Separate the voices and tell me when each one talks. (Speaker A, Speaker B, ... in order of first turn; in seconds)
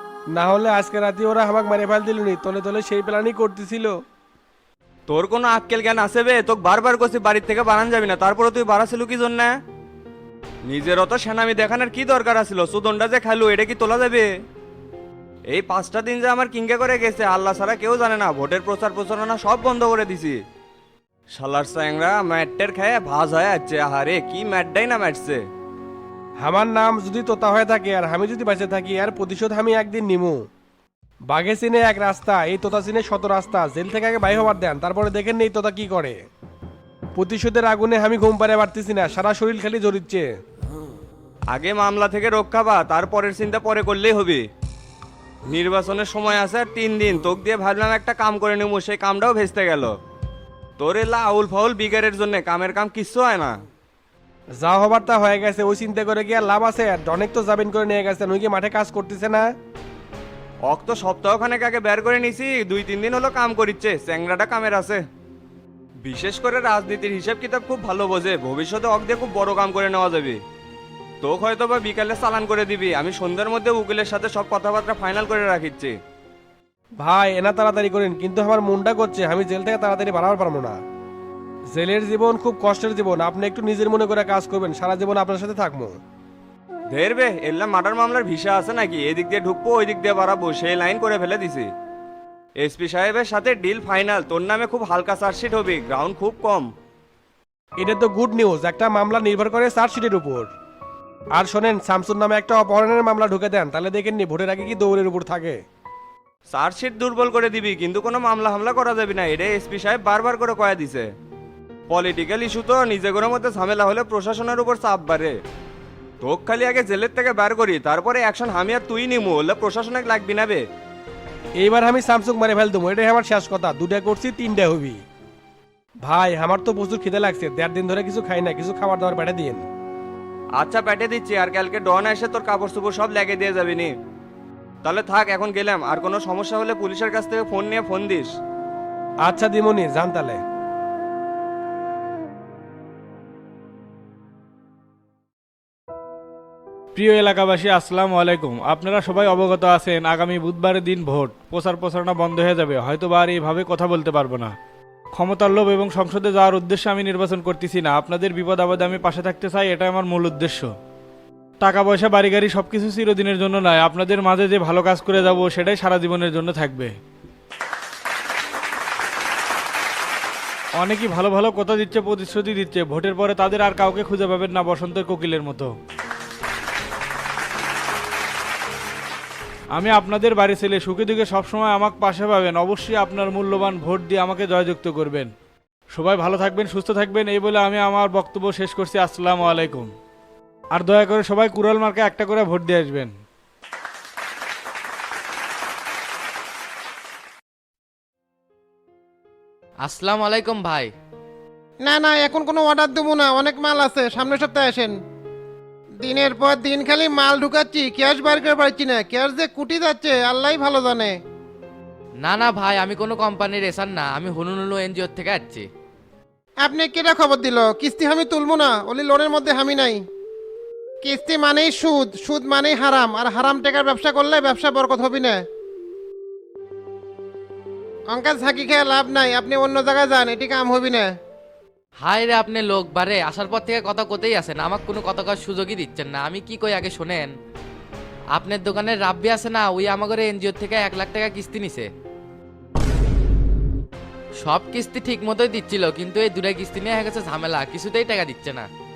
Speaker A: 0.3-3.9, 26.4-30.4, 31.3-36.2, 37.1-40.3, 54.6-59.5, 77.0-80.8, 81.7-85.9, 97.8-100.5, 101.3-105.6, 121.6-125.0, 126.0-129.6, 139.2-140.4
Speaker B: 5.1-9.5, 10.7-14.3, 15.5-20.4, 21.3-25.4, 41.5-44.4, 45.5-49.9, 50.8-53.5, 60.7-65.0, 66.0-70.4, 71.2-75.9, 86.9-91.7, 92.6-96.7, 106.5-111.0, 111.9-115.3, 116.2-120.6, 130.6-133.9, 134.8-138.3
Speaker C: 146.9-154.5, 155.1-160.7, 161.6-166.9, 170.8-175.7, 179.7-185.3, 185.9-189.9, 190.7-193.1
Speaker D: 199.8-200.9, 212.2-215.6, 232.0-237.3, 238.3-241.9, 244.4-248.7
Speaker E: 201.8-204.9, 206.0-211.1, 216.6-220.0, 221.0-225.4, 228.1-231.1